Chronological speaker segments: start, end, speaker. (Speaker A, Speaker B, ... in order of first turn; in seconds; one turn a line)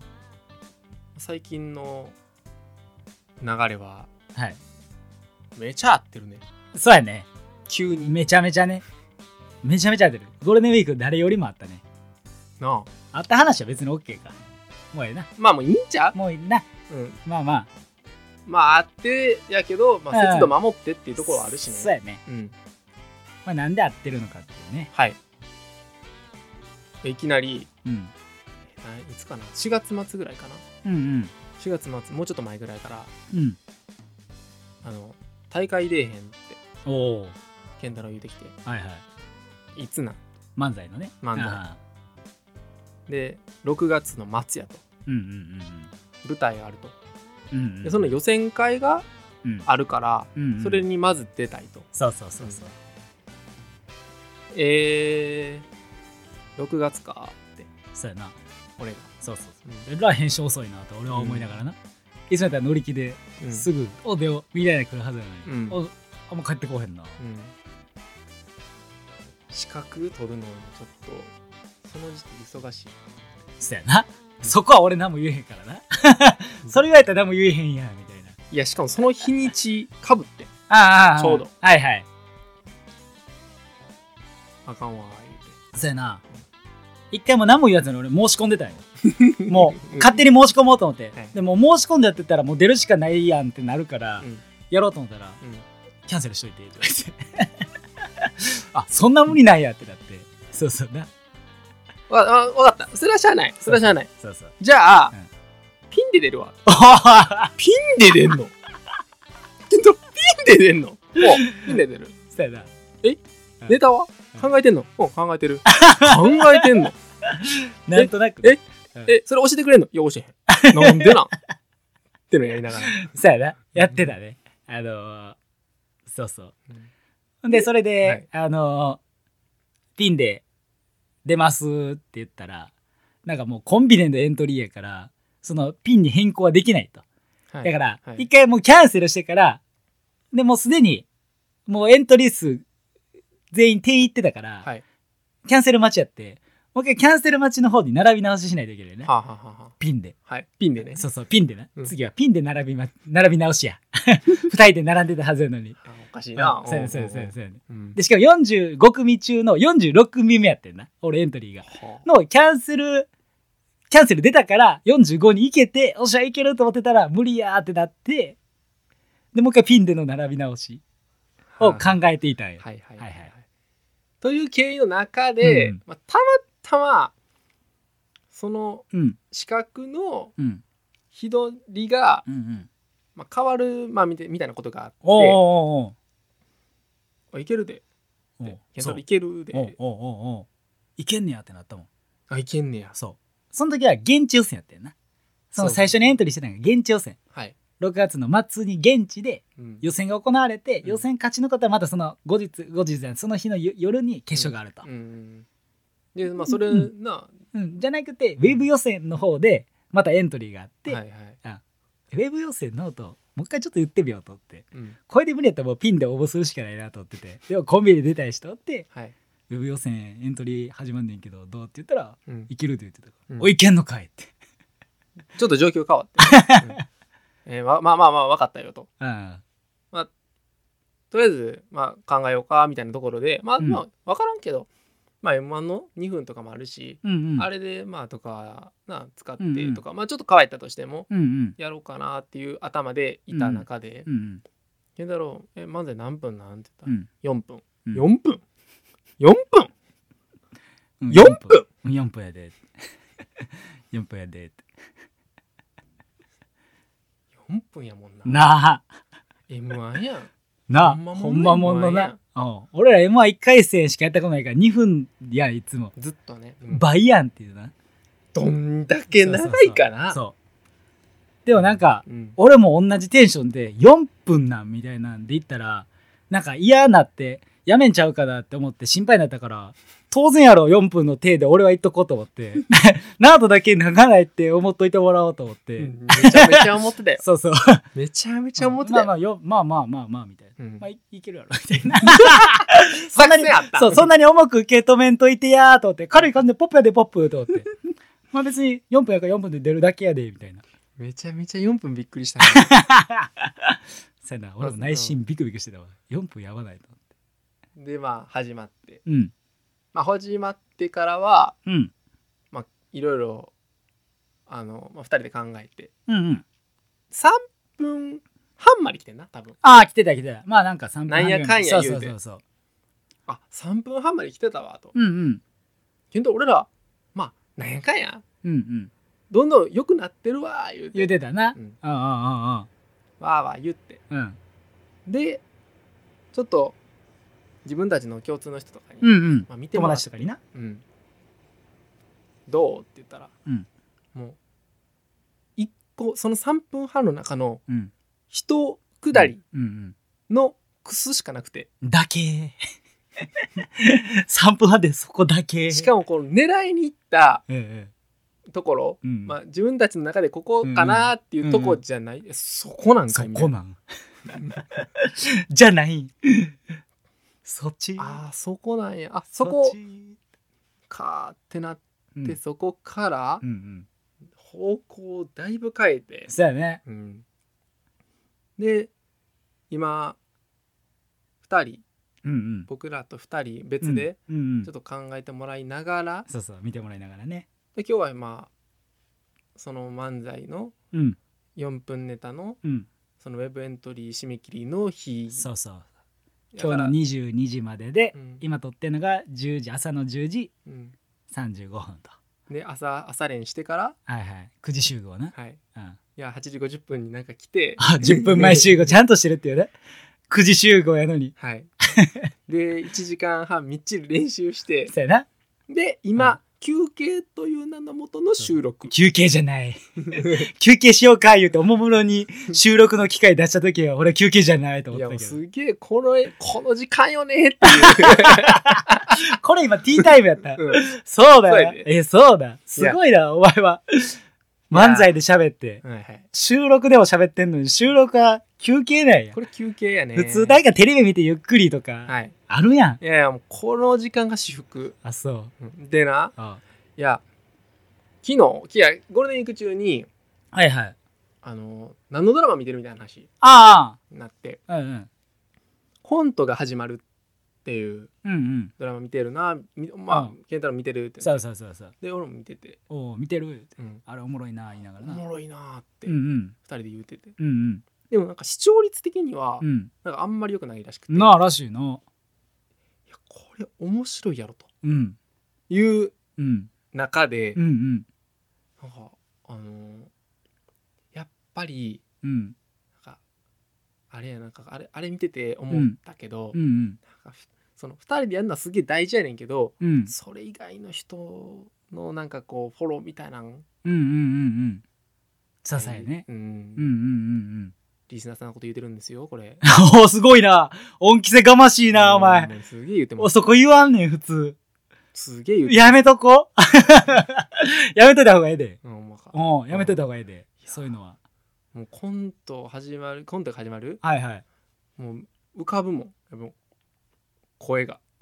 Speaker A: 1.1-2.1
Speaker A: 3.4-4.1
Speaker A: 5.5-6.4
Speaker B: 6.7-7.3
Speaker A: 7.7-8.2
Speaker B: 8.0-8.8
Speaker B: 9.6-11.8
Speaker A: 12.6-12.9
Speaker B: 13.1-14.4
Speaker B: 14.9-15.3
Speaker A: 15.4-16.1
Speaker B: 16.1-16.6
Speaker A: 16.9-17.2
Speaker B: 17.2-17.7
Speaker A: 18.4-22.5
Speaker B: 20.1-20.5
Speaker B: 21.7-22.2
Speaker B: 23.4-24.9
Speaker A: 27.0-27.7
Speaker B: 27.8-28.1
Speaker A: 28.8-30.6
Speaker B: 30.8-31.3
Speaker A: 31.6-33.1
Speaker B: 33.3-33.6
Speaker A: 34.8-36.6
Speaker B: 36.9-37.4
Speaker A: 37.8-38.5
Speaker B: 38.6-39.0
Speaker A: 39.7-40.2
Speaker B: 40.5-41.8
Speaker A: 41.2-41.6
Speaker A: 43.1-44.8
Speaker B: 45.0-45.9
Speaker A: 46.2-46.9
Speaker B: 47.5-48.1
Speaker A: 47.8-49.0
Speaker A: 49.6-52.6
Speaker B: 50.4-50.8
Speaker B: 51.9-52.7
Speaker A: 54.5-55.6
Speaker A: 56.6-57.7
Speaker B: 57.9-58.4
Speaker A: 58.8-59.1
Speaker B: 59.2-61.8
Speaker A: 61.1-61.6
Speaker B: 62.3-67.2
Speaker A: 63.4-63.7
Speaker A: 65.4-65.8
Speaker A: 67.2-67.5
Speaker A: 69.5-71.3
Speaker A: 71.8-73.0
Speaker B: 73.6-78.3
Speaker A: 78.5-80.5
Speaker B: 80.7-82.0
Speaker A: 81.1-81.5
Speaker A: 84.6-85.6
Speaker B: 85.7-86.2
Speaker B: 87.1-95.4
Speaker A: 89.0-90.2
Speaker A: 94.2-94.4
Speaker A: 95.4-95.7
Speaker B: 96.1-97.7
Speaker B: 98.2-101.1
Speaker A: 102.1-105.1
Speaker B: 103.6-104.5
Speaker A: 105.9-106.6
Speaker B: 106.7-107.5
Speaker A: 107.5-108.5
Speaker A: 109.7-112.1
Speaker B: 111.3-111.7
Speaker B: 112.3-112.7
Speaker A: 113.0-117.0
Speaker B: 115.7-116.7
Speaker B: 117.3-119.1
Speaker A: 117.9-121.3
Speaker B: 120.5-121.1
Speaker A: 122.3-123.1
Speaker B: 122.9-125.4
Speaker B: 126.1-126.5
Speaker B: 127.4-129.0
Speaker A: 127.5-128.2
Speaker B: 130.0-130.4
Speaker B: 131.2-132.7
Speaker B: 133.2-137.0
Speaker A: 137.5-138.2
Speaker B: 137.6-139.6
Speaker B: 140.3-141.0
Speaker B: 141.7-142.6
Speaker B: 143.5-144.7
Speaker B: 145.4-149.1
Speaker A: 149.0-151.0
Speaker B: 149.8-150.1
Speaker B: 150.9-155.8
Speaker A: 155.8-158.0
Speaker B: 156.3-163.1
Speaker A: 161.6-162.1
Speaker B: 163.9-168.4
Speaker B: 169.3-170.8
Speaker A: 171.5-171.9
Speaker B: 171.6-173.3
Speaker A: 172.6-173.4
Speaker A: 174.2-177.1
Speaker B: 175.4-175.8
Speaker A: 178.3-180.3
Speaker B: 178.9-179.2
Speaker A: 181.1-182.2
Speaker B: 182.2-182.7
Speaker A: 183.2-185.4
Speaker B: 185.0-185.9
Speaker A: 187.3-187.8
Speaker B: 188.4-189.0
Speaker A: 188.4-189.8
Speaker B: 189.5-190.4
Speaker B: 191.0-191.9
Speaker A: 192.3-193.0
Speaker B: 193.0-194.9
Speaker B: 195.5-197.2
Speaker A: 195.6-196.1
Speaker A: 197.3-197.6
Speaker B: 197.8-204.8
Speaker A: 199.6-199.8
Speaker A: 204.3-205.4
Speaker A: 206.1-207.3
Speaker B: 206.5-206.9
Speaker B: 207.5-211.6
Speaker A: 210.9-211.4
Speaker B: 212.1-218.8
Speaker A: 214.7-215.0
Speaker B: 219.5-224.3
Speaker A: 222.2-222.5
Speaker A: 225.3-226.8
Speaker B: 226.2-226.8
Speaker A: 227.4-228.9
Speaker B: 229.0-229.4
Speaker A: 231.1-234.7
Speaker A: 235.2-244.1
Speaker B: 237.0-237.5
Speaker B: 239.4-239.8
Speaker B: 241.1-241.5
Speaker B: 243.3-244.4
Speaker A: 245.0-248.4
Speaker A: 249.2-249.7
Speaker B: 251.0-252.6
Speaker A: 251.1-251.7
Speaker B: 253.4-254.6
Speaker A: 257.4-258.4
Speaker B: 258.2-258.8
Speaker A: 259.5-262.2
Speaker B: 260.7-265.9
Speaker A: 265.9-266.8
Speaker B: 266.7-267.7
Speaker A: 268.3-270.2
Speaker B: 269.2-270.3
Speaker B: 271.4-286.6
Speaker A: 272.0-272.4
Speaker A: 285.8-287.2
Speaker B: 287.2-287.8
Speaker A: 287.9-289.1
Speaker B: 288.6-297.7
Speaker A: 290.6-290.9
Speaker A: 292.1-294.1
Speaker B: 298.3-300.6
Speaker A: 301.0-302.7
Speaker B: 302.5-307.0
Speaker A: 304.6-305.2
Speaker A: 307.8-309.0
Speaker B: 309.1-309.3
Speaker A: 309.9-311.5
Speaker B: 311.6-311.9
Speaker A: 312.5-313.5
Speaker A: 314.5-315.9
Speaker B: 316.1-316.4
Speaker A: 317.1-319.6
Speaker B: 319.6-322.4
Speaker A: 321.1-322.1
Speaker A: 323.3-324.9
Speaker B: 324.9-325.4
Speaker A: 326.1-328.2
Speaker B: 328.4-328.9
Speaker A: 329.3-331.8
Speaker B: 330.9-332.7
Speaker A: 333.2-334.0
Speaker B: 334.1-334.4
Speaker A: 335.1-335.4
Speaker A: 336.3-336.8
Speaker A: 337.6-340.8
Speaker B: 339.0-340.4
Speaker A: 342.5-343.3
Speaker A: 345.6-347.6
Speaker A: 348.3-349.4
Speaker B: 349.1-349.9
Speaker A: 350.3-351.7
Speaker B: 351.8-352.6
Speaker B: 353.2-355.9
Speaker A: 355.7-357.4
Speaker B: 357.5-357.9
Speaker A: 358.5-363.5
Speaker B: 359.0-359.3
Speaker B: 360.6-361.8
Speaker B: 363.1-363.8
Speaker B: 364.8-366.6
Speaker B: 367.4-368.2
Speaker A: 368.0-369.8
Speaker B: 369.4-370.1
Speaker A: 370.9-373.4
Speaker B: 373.4-373.9
Speaker A: 374.4-376.3
Speaker B: 376.3-376.8
Speaker A: 376.8-377.2
Speaker A: 378.6-378.9
Speaker A: 379.7-380.2
Speaker A: 381.4-381.8
Speaker B: 382.2-382.7
Speaker A: 382.7-386.3
Speaker B: 383.8-384.7
Speaker B: 386.3-387.4
Speaker A: 387.7-388.5
Speaker A: 389.6-390.7
Speaker B: 390.9-391.2
Speaker A: 391.6-392.6
Speaker A: 393.2-395.5
Speaker B: 395.3-395.9
Speaker A: 396.5-396.9
Speaker B: 396.6-400.5
Speaker A: 398.1-398.4
Speaker A: 400.6-400.9
Speaker B: 401.3-402.1
Speaker A: 402.5-403.9
Speaker B: 404.1-406.0
Speaker A: 405.3-405.6
Speaker A: 406.1-408.9
Speaker B: 407.8-409.7
Speaker B: 410.3-411.3
Speaker A: 411.4-411.7
Speaker B: 411.9-412.3
Speaker A: 412.5-414.9
Speaker B: 414.9-415.2
Speaker A: 415.7-418.9
Speaker B: 418.4-425.3
Speaker A: 420.0-420.5
Speaker A: 424.9-429.2
Speaker B: 427.8-435.8
Speaker A: 430.0-430.9
Speaker A: 431.4-431.9
Speaker A: 434.7-435.1
Speaker A: 435.8-436.2
Speaker B: 436.3-439.4
Speaker A: 439.3-440.6
Speaker B: 440.1-443.0
Speaker A: 442.1-442.3
Speaker A: 443.0-445.0
Speaker B: 445.0-445.5
Speaker A: 445.6-446.3
Speaker A: 447.0-447.2
Speaker A: 448.2-450.1
Speaker B: 450.5-450.9
Speaker A: 451.4-453.3
Speaker B: 453.4-454.0
Speaker A: 454.1-454.6
Speaker B: 454.7-455.1
Speaker A: 456.0-457.0
Speaker A: 457.6-458.1
Speaker B: 458.2-458.7
Speaker A: 458.8-461.4
Speaker B: 461.2-461.9
Speaker A: 462.0-462.8
Speaker B: 462.9-465.2
Speaker A: 463.8-464.0
Speaker A: 465.0-467.4
Speaker B: 466.1-466.5
Speaker B: 467.4-467.8
Speaker A: 468.1-471.4
Speaker B: 469.6-469.9
Speaker B: 471.1-472.0
Speaker A: 473.1-474.7
Speaker B: 474.8-475.1
Speaker A: 475.7-476.1
Speaker B: 476.4-476.7
Speaker A: 476.9-477.6
Speaker B: 477.6-478.1
Speaker A: 478.8-480.1
Speaker A: 481.1-482.0
Speaker B: 482.2-482.5
Speaker A: 484.1-493.6
Speaker B: 485.7-485.9
Speaker B: 486.5-487.0
Speaker B: 489.8-490.1
Speaker B: 493.8-494.8
Speaker B: 495.6-496.2
Speaker A: 495.8-496.9
Speaker B: 496.8-497.7
Speaker A: 498.1-499.6
Speaker B: 499.6-502.5
Speaker A: 501.9-503.3
Speaker B: 503.2-504.6
Speaker A: 505.1-506.0
Speaker B: 505.6-508.8
Speaker A: 508.8-510.0
Speaker B: 509.3-511.1
Speaker A: 510.6-510.9
Speaker A: 511.7-514.0
Speaker B: 514.0-514.4
Speaker A: 515.0-516.5
Speaker A: 517.6-518.0